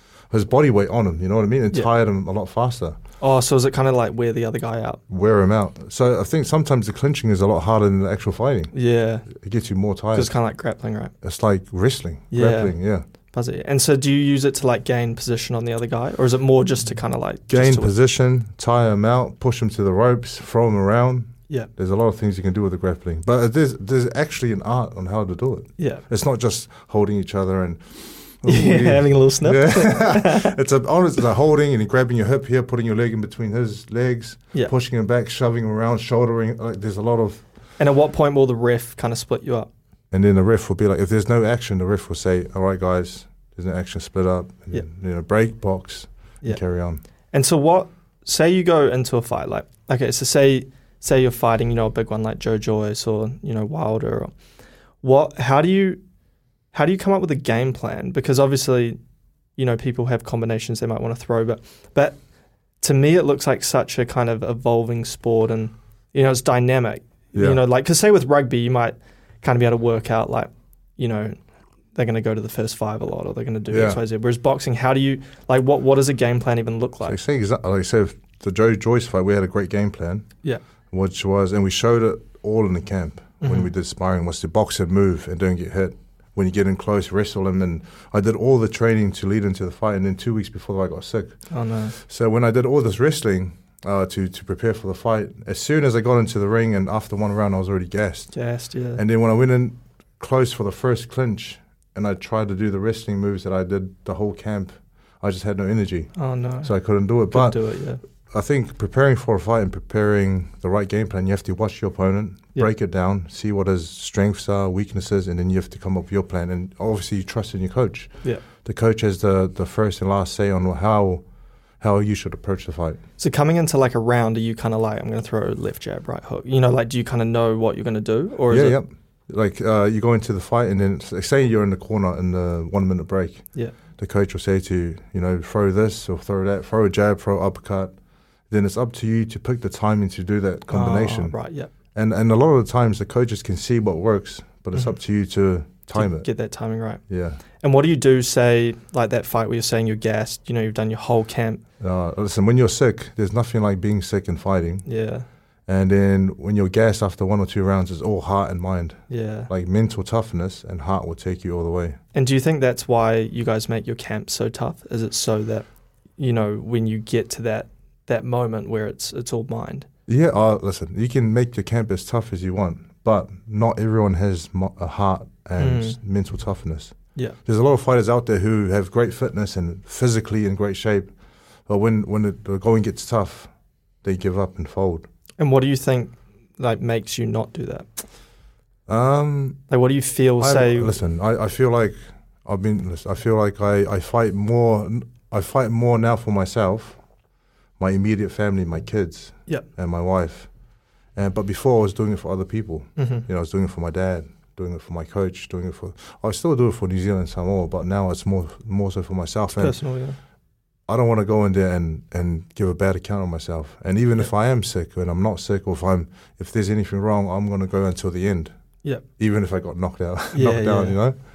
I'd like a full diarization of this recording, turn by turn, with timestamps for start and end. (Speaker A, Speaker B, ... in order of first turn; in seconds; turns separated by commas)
Speaker A: 0.3-3.0, Speaker B: 3.2-5.0, Speaker A: 5.1-8.7, Speaker B: 8.7-9.3, Speaker A: 9.3-10.3, Speaker B: 10.1-11.1, Speaker A: 11.2-13.0, Speaker B: 12.3-12.8, Speaker B: 13.3-17.9, Speaker A: 17.5-37.5, Speaker B: 28.4-30.6, Speaker B: 37.8-39.7, Speaker A: 40.1-47.0, Speaker B: 47.3-54.3, Speaker B: 55.0-56.0, Speaker B: 56.7-59.0, Speaker B: 59.6-62.2, Speaker B: 62.8-71.4, Speaker A: 67.3-67.6, Speaker B: 72.0-77.2, Speaker A: 73.7-74.0, Speaker A: 77.0-80.3, Speaker A: 80.9-91.3, Speaker B: 83.4-83.7, Speaker B: 91.5-92.0, Speaker A: 92.0-98.3, Speaker B: 98.3-99.0, Speaker A: 99.0-106.1, Speaker B: 106.2-106.7, Speaker A: 106.6-107.6, Speaker B: 107.3-108.0, Speaker A: 108.3-118.1, Speaker A: 118.6-121.2, Speaker A: 121.8-123.0, Speaker B: 123.2-128.8, Speaker A: 128.5-133.4, Speaker A: 134.0-138.0, Speaker A: 138.5-141.4, Speaker B: 140.7-141.7, Speaker A: 141.9-146.3, Speaker B: 146.0-147.0, Speaker A: 147.1-147.4, Speaker B: 147.6-151.6, Speaker A: 151.8-154.8, Speaker B: 154.9-155.3, Speaker A: 155.7-162.0, Speaker B: 159.1-159.5, Speaker B: 162.1-165.7, Speaker B: 166.2-169.9, Speaker A: 170.1-176.9, Speaker B: 175.6-176.0, Speaker A: 177.5-181.1, Speaker A: 181.7-183.5, Speaker A: 184.0-185.1, Speaker B: 185.4-187.9, Speaker A: 188.9-189.6, Speaker B: 189.7-190.9, Speaker A: 190.4-197.0, Speaker A: 197.8-200.5, Speaker A: 201.2-209.8, Speaker B: 203.0-203.2, Speaker B: 209.6-210.2, Speaker A: 210.9-218.5, Speaker A: 219.2-221.2, Speaker B: 220.3-221.0